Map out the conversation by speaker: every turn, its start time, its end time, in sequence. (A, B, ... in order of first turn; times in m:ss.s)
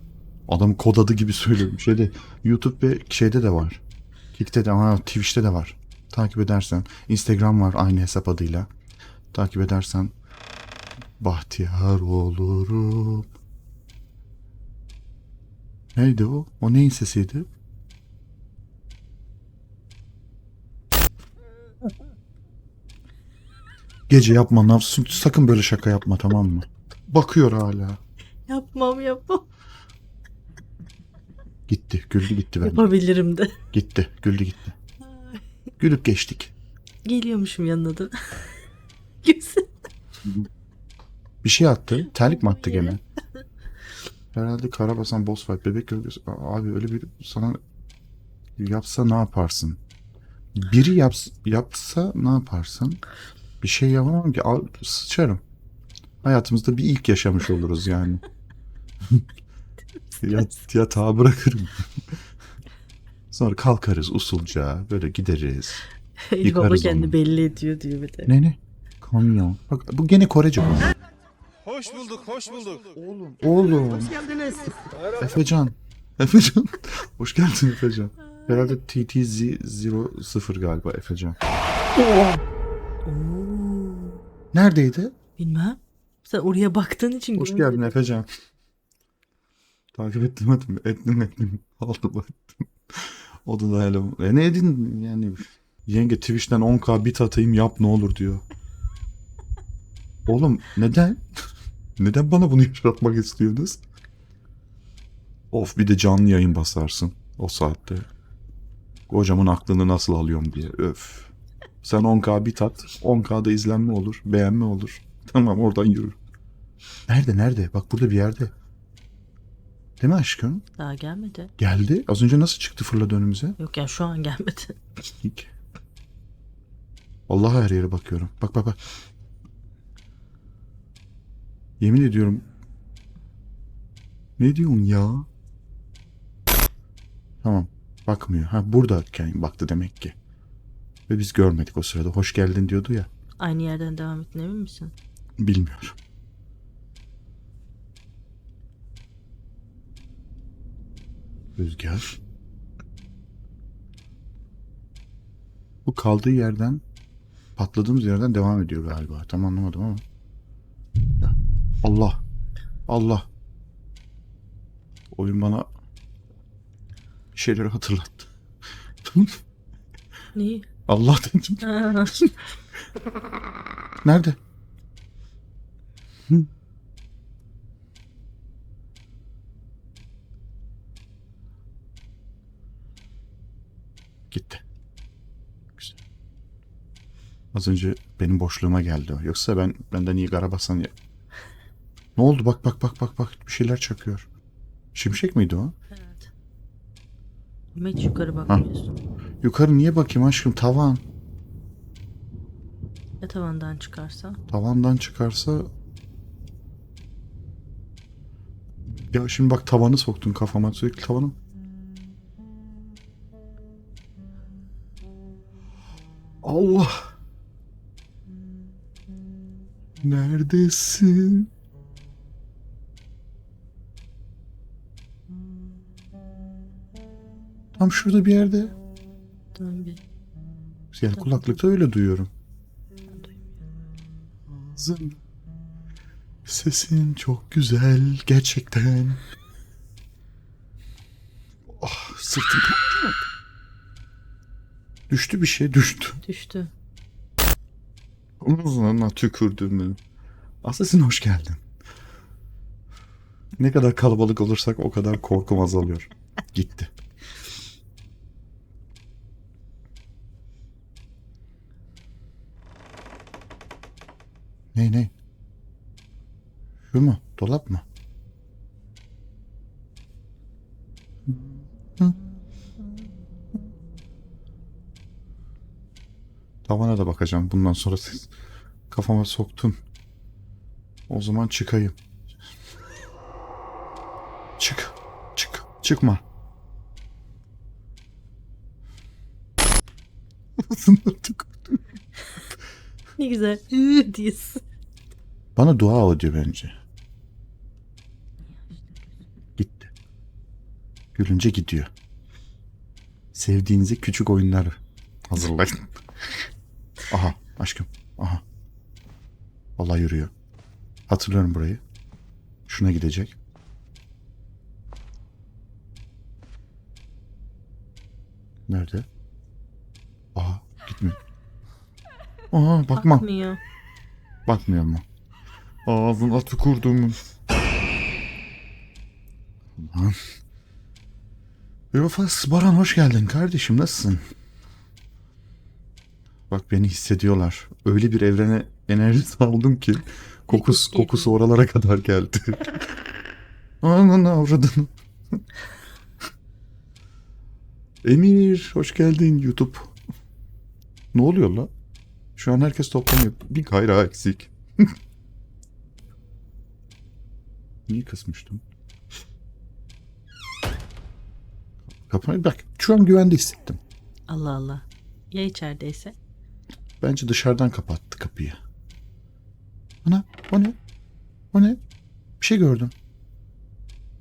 0:00.5-0:03.8 A
0:04.3-0:08.7 A
0:09.3-0:10.1 A
0:11.2-0:13.3 A
0:15.9-0:17.5 A
0:24.1-0:28.0 A
0:28.5-0:29.5 B
0:31.7-0:32.8 A
0:32.6-0:33.6 B
0:33.7-0:34.8 A
0:35.0-0:35.4 B
0:35.8-0:36.5 A
0:37.0-0:38.7 B
0:39.2-0:39.9 B
0:41.4-0:43.0 A
0:42.1-0:43.4 B
0:44.3-0:47.6 A
0:48.6-0:49.8 A
0:50.5-0:53.0 A
0:53.6-0:55.4 A
0:56.2-0:58.2 A
1:00.1-1:00.5 B
1:00.2-1:02.0 A
1:03.3-1:05.8 A
1:06.2-1:08.3 B
1:06.4-1:07.2 A
1:08.3-1:10.9 A
1:12.8-1:21.4 A
1:21.9-1:22.4 A
1:23.0-1:24.2 B
1:24.5-1:25.2 A
1:25.4-1:27.9 B
1:27.4-1:28.3 A
1:29.9-1:38.4 A
1:40.2-1:41.2 A
1:42.0-1:43.8 A
1:45.5-1:48.1 A
1:49.1-1:56.2 A
1:57.1-1:58.5 A
2:00.0-2:00.6 A
2:00.8-2:01.5 B
2:01.6-2:03.6 A
2:03.6-2:04.8 B
2:05.2-2:05.5 A
2:07.3-2:08.8 A
2:11.8-2:12.4 A
2:14.4-2:15.3 A
2:17.4-2:20.1 A
2:21.1-2:23.1 A
2:23.4-2:24.9 B
2:25.4-2:26.0 A
2:31.6-2:32.1 A
2:35.9-2:36.8 A
2:37.6-2:40.0 A
2:41.2-2:42.2 A
2:42.9-2:43.3 A
2:45.1-2:45.7 A
2:47.4-2:48.3 A
2:49.0-2:49.4 A
2:50.4-2:50.7 B
2:50.9-2:52.4 A
2:51.6-2:52.2 B
2:54.0-2:54.4 A
3:04.3-3:04.6 A
3:07.5-3:10.9 A
3:12.2-3:14.3 A
3:14.9-3:15.7 A
3:15.9-3:16.3 B
3:17.7-3:18.9 B
3:19.4-3:21.0 A
3:23.2-3:24.4 B
3:24.5-3:25.7 A
3:29.1-3:31.4 A
3:36.4-3:37.1 A
3:40.0-3:41.5 A
3:47.7-3:48.7 A
3:49.5-3:50.0 B
3:50.9-3:52.3 A
3:51.2-3:51.5 B
3:53.1-3:53.6 B
3:54.7-3:55.2 A
3:56.4-3:59.2 A
4:01.8-4:03.2 A
4:05.1-4:06.2 A
4:06.2-4:06.7 B
4:08.4-4:10.0 A
4:10.6-4:11.6 A
4:13.6-4:16.9 A
4:24.7-4:25.1 A
4:26.9-4:27.8 A
4:31.2-4:32.2 A
4:36.6-4:38.3 A
4:38.9-4:39.8 A
4:41.1-4:42.0 A
4:44.6-4:46.2 A
4:50.6-4:51.8 A
4:53.2-4:54.6 B
4:55.6-4:56.7 A
4:58.7-4:59.0 B
4:59.6-4:59.9 A
5:01.1-5:01.9 A
5:03.3-5:05.9 A
5:07.1-5:08.4 A
5:09.8-5:10.3 A
5:11.1-5:11.8 A
5:12.7-5:13.4 A
5:18.7-5:19.1 A
5:20.4-5:21.2 A
5:22.5-5:23.2 A
5:22.9-5:23.6 B
5:24.5-5:25.0 A
5:25.9-5:27.2 A
5:29.8-5:30.2 A
5:31.9-5:34.2 A
5:36.5-5:42.8 A
5:40.5-5:41.3 B
5:43.8-5:44.9 A
5:48.0-5:49.9 A
5:51.1-5:51.7 A
5:52.4-5:54.9 A
5:57.9-5:58.6 A
6:02.1-6:03.8 A
6:04.3-6:06.2 B
6:07.0-6:08.6 A
6:10.0-6:10.8 A
6:11.5-6:11.8 A
6:12.4-6:12.9 A